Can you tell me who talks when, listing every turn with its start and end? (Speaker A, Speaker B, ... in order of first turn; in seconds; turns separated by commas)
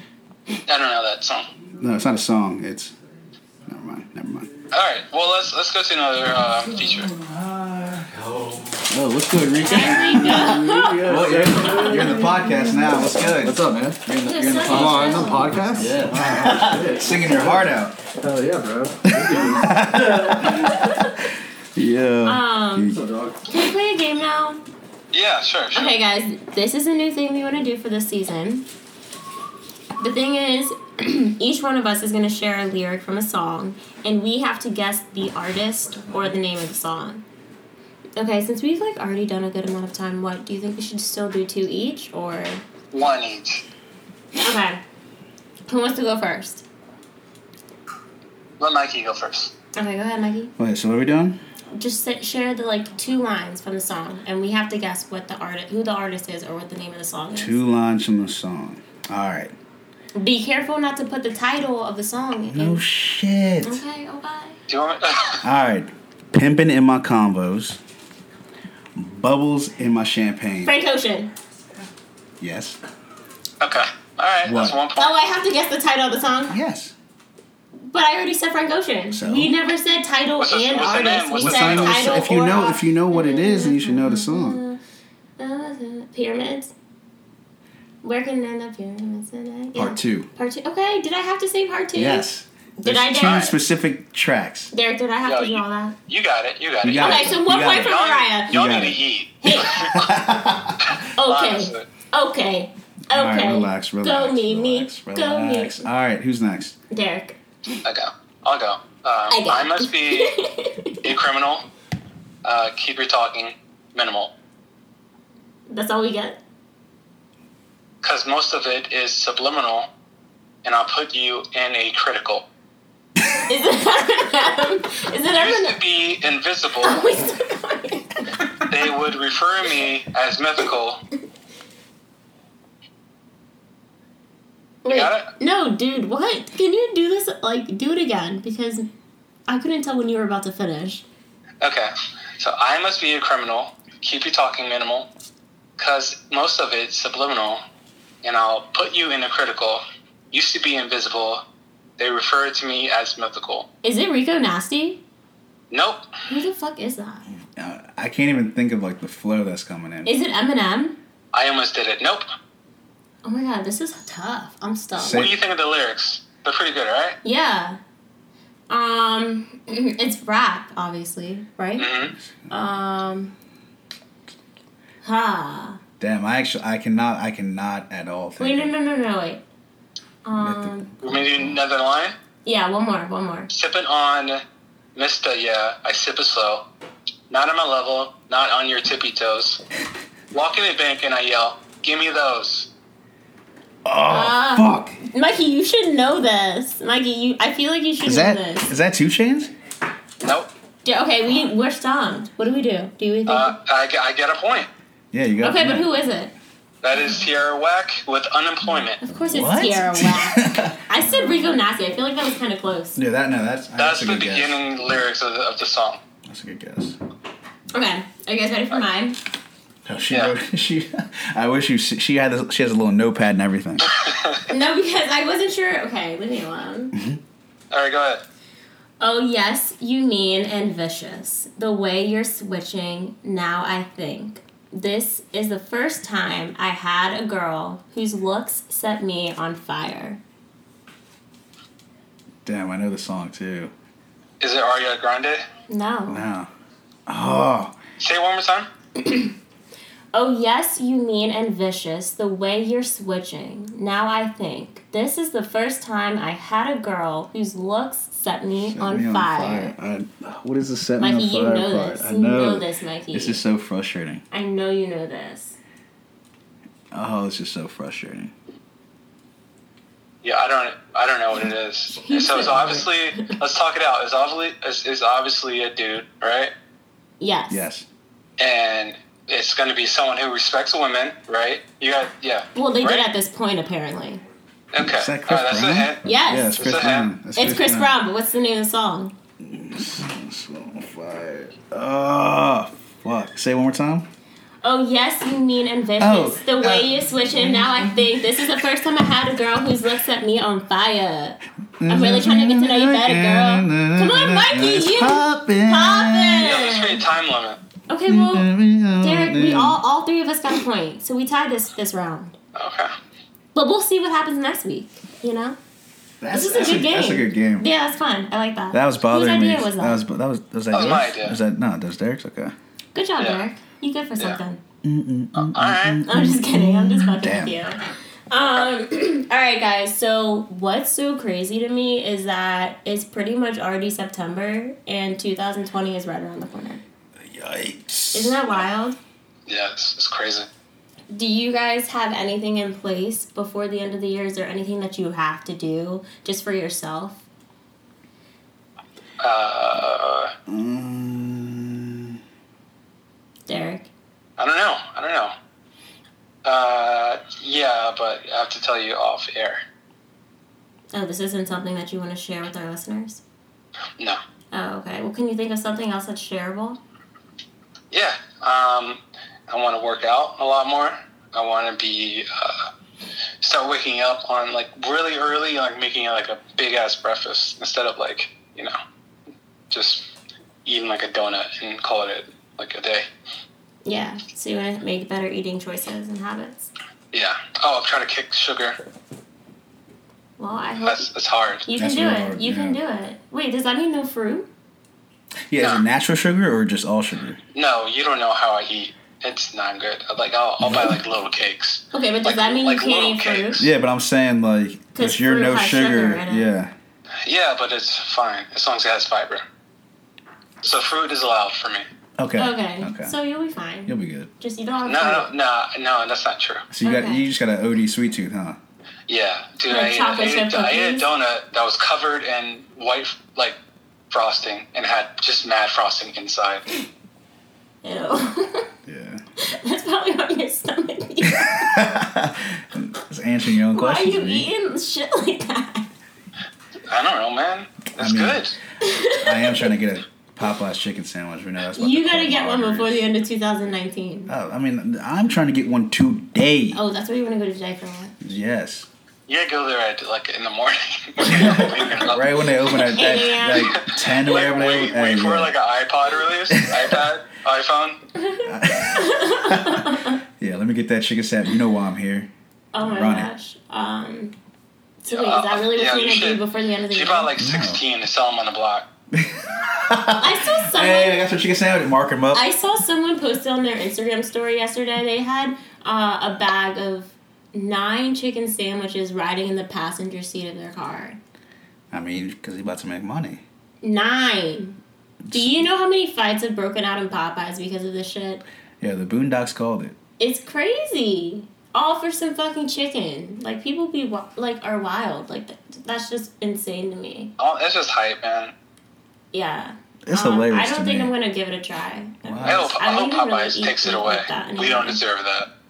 Speaker A: 0.7-1.5, Speaker B: 1.8-2.9, Speaker B: 3.7-4.5, Speaker A: 4.7-7.1, Speaker B: 6.8-18.0, Speaker C: 9.7-13.3, Speaker D: 9.7-12.4, Speaker D: 13.4-20.7, Speaker C: 14.2-16.8, Speaker B: 19.1-20.9, Speaker C: 20.4-21.1, Speaker B: 21.8-23.0, Speaker C: 22.2-24.6, Speaker D: 22.9-23.4, Speaker A: 25.1-26.0, Speaker C: 25.7-28.7, Speaker C: 30.0-37.2, Speaker C: 38.2-42.6, Speaker A: 42.9-43.6, Speaker C: 44.4-44.8, Speaker C: 45.7-46.6, Speaker A: 48.6-49.5, Speaker C: 49.8-50.5, Speaker B: 50.6-51.4, Speaker C: 51.8-57.6, Speaker B: 57.4-59.5, Speaker C: 60.2-62.8, Speaker B: 62.5-63.8, Speaker C: 63.6-64.6, Speaker A: 64.7-65.4, Speaker B: 65.4-67.8, Speaker B: 69.0-70.8, Speaker C: 70.7-71.3, Speaker B: 72.4-72.8, Speaker A: 73.6-75.2, Speaker B: 74.4-74.8, Speaker C: 75.0-76.5, Speaker B: 76.5-77.0, Speaker C: 77.9-84.8, Speaker B: 79.1-79.5, Speaker A: 80.4-82.3, Speaker B: 81.4-84.6, Speaker C: 85.4-86.7, Speaker C: 88.0-93.5, Speaker B: 89.8-90.3, Speaker B: 91.9-94.7, Speaker A: 93.2-93.5, Speaker C: 94.7-96.0, Speaker A: 95.2-100.0, Speaker B: 96.8-99.0, Speaker C: 97.0-98.7, Speaker C: 99.4-100.0, Speaker B: 99.7-100.8, Speaker A: 100.8-101.9, Speaker C: 101.0-105.9, Speaker B: 103.1-106.8, Speaker C: 106.9-107.4, Speaker A: 107.8-110.4, Speaker C: 109.3-111.0, Speaker A: 111.0-111.7, Speaker A: 112.4-114.3, Speaker C: 115.7-116.4, Speaker A: 118.0-119.9, Speaker A: 120.6-122.5, Speaker C: 123.4-125.8, Speaker A: 125.3-127.0, Speaker C: 126.8-128.5, Speaker A: 128.7-131.0, Speaker C: 134.8-138.9, Speaker A: 134.9-135.3, Speaker C: 139.5-141.0, Speaker A: 141.6-145.1, Speaker A: 145.8-147.6, Speaker A: 148.2-151.4, Speaker A: 152.0-153.7, Speaker C: 153.8-155.0, Speaker A: 155.7-156.0, Speaker C: 156.3-157.3, Speaker B: 157.5-160.1, Speaker C: 160.1-161.0, Speaker A: 161.3-162.3, Speaker C: 163.2-165.3, Speaker B: 165.0-165.4, Speaker A: 165.1-167.2, Speaker C: 167.2-167.8, Speaker C: 168.7-171.9, Speaker A: 171.8-172.2, Speaker B: 172.2-172.5, Speaker C: 172.5-173.3, Speaker C: 175.0-175.8, Speaker B: 176.0-178.7, Speaker C: 178.4-179.4, Speaker C: 180.2-180.9, Speaker B: 180.4-181.6, Speaker A: 181.0-182.1, Speaker C: 182.4-183.5, Speaker A: 183.5-184.4, Speaker A: 185.0-186.6, Speaker A: 187.3-189.6, Speaker A: 190.3-192.7, Speaker B: 193.8-195.0, Speaker C: 194.1-198.7, Speaker B: 198.0-199.5, Speaker A: 200.2-200.5, Speaker C: 200.8-203.6, Speaker A: 203.3-204.7, Speaker B: 205.1-205.9, Speaker C: 205.4-206.3, Speaker A: 206.8-209.0, Speaker C: 209.0-213.0, Speaker B: 209.3-211.3, Speaker B: 213.0-214.5, Speaker A: 213.8-216.0, Speaker B: 216.3-217.0, Speaker C: 217.7-219.2, Speaker B: 219.9-223.9, Speaker A: 223.9-224.3, Speaker C: 224.5-227.0, Speaker B: 226.9-227.2, Speaker A: 227.7-228.2, Speaker C: 229.0-240.2, Speaker B: 242.4-243.7, Speaker A: 244.4-245.4, Speaker C: 245.7-246.2, Speaker B: 246.1-246.5, Speaker B: 247.1-247.8, Speaker A: 248.0-248.7, Speaker C: 249.0-249.3, Speaker C: 250.1-259.8, Speaker B: 258.7-264.2, Speaker C: 261.0-263.4, Speaker C: 264.3-265.6, Speaker B: 266.9-268.3, Speaker A: 270.2-276.5, Speaker C: 272.0-273.4, Speaker C: 277.2-277.7, Speaker B: 277.5-277.9, Speaker A: 278.4-283.1, Speaker C: 282.6-284.2, Speaker A: 284.7-286.0, Speaker B: 284.8-287.9, Speaker C: 286.0-286.6, Speaker A: 286.6-287.1, Speaker C: 287.4-289.1, Speaker B: 289.4-294.1, Speaker C: 294.6-307.0, Speaker B: 296.0-298.1, Speaker B: 301.8-306.5, Speaker A: 306.4-307.6, Speaker C: 307.9-312.4, Speaker B: 308.1-309.8, Speaker A: 312.6-312.9, Speaker C: 313.5-315.6, Speaker B: 316.2-317.7, Speaker C: 316.3-320.0, Speaker B: 318.7-322.6, Speaker A: 320.7-321.4, Speaker C: 322.9-324.6, Speaker A: 323.2-323.4, Speaker B: 324.8-327.6, Speaker A: 325.4-326.1, Speaker C: 326.1-336.8, Speaker B: 337.2-338.4, Speaker C: 338.1-339.0, Speaker A: 339.5-340.5, Speaker C: 341.1-347.2, Speaker A: 349.2-350.3, Speaker B: 350.5-352.2, Speaker C: 353.5-353.9, Speaker A: 354.4-355.3, Speaker A: 356.4-359.6, Speaker C: 360.9-363.2, Speaker C: 364.5-366.8, Speaker A: 367.9-372.7, Speaker A: 373.4-378.8, Speaker A: 379.7-380.1, Speaker A: 380.6-383.1, Speaker C: 383.9-386.7, Speaker A: 387.1-388.8, Speaker C: 390.4-391.1, Speaker A: 390.8-391.7, Speaker C: 391.7-394.5, Speaker B: 391.8-392.8, Speaker B: 395.5-397.4, Speaker A: 395.6-395.8, Speaker A: 397.5-403.6, Speaker B: 400.6-400.9, Speaker C: 401.9-403.7, Speaker B: 403.6-406.7, Speaker C: 404.9-406.5, Speaker A: 407.2-409.4, Speaker A: 410.6-411.9, Speaker B: 412.2-413.1, Speaker C: 412.4-415.3, Speaker B: 413.9-414.3, Speaker A: 414.9-416.7, Speaker B: 416.7-418.6, Speaker C: 416.8-417.2, Speaker A: 419.1-423.6, Speaker C: 419.7-421.1, Speaker A: 424.1-426.7, Speaker C: 427.8-428.7, Speaker B: 428.9-429.2, Speaker C: 429.4-431.8, Speaker B: 431.3-434.5, Speaker C: 433.7-435.9, Speaker A: 436.9-438.6, Speaker B: 438.0-438.5, Speaker C: 438.8-439.7, Speaker B: 439.1-443.1, Speaker C: 441.8-444.3, Speaker B: 444.3-446.8, Speaker C: 446.7-448.1, Speaker B: 448.2-448.9, Speaker A: 449.3-452.3, Speaker B: 451.2-455.5, Speaker C: 452.7-453.9, Speaker A: 453.7-458.0, Speaker B: 456.5-457.0, Speaker C: 458.2-460.2, Speaker B: 458.5-463.3, Speaker C: 462.7-464.4, Speaker C: 465.0-467.3, Speaker A: 465.1-468.9, Speaker B: 467.4-467.8, Speaker B: 469.1-472.4, Speaker C: 470.2-471.2, Speaker C: 472.3-481.2, Speaker B: 481.9-483.4, Speaker C: 483.8-484.8, Speaker B: 485.2-485.6, Speaker C: 485.3-488.4, Speaker B: 488.8-490.0, Speaker C: 490.2-497.3, Speaker A: 497.4-498.5, Speaker C: 499.3-505.0, Speaker B: 500.1-501.1, Speaker B: 502.3-502.6, Speaker A: 502.4-505.5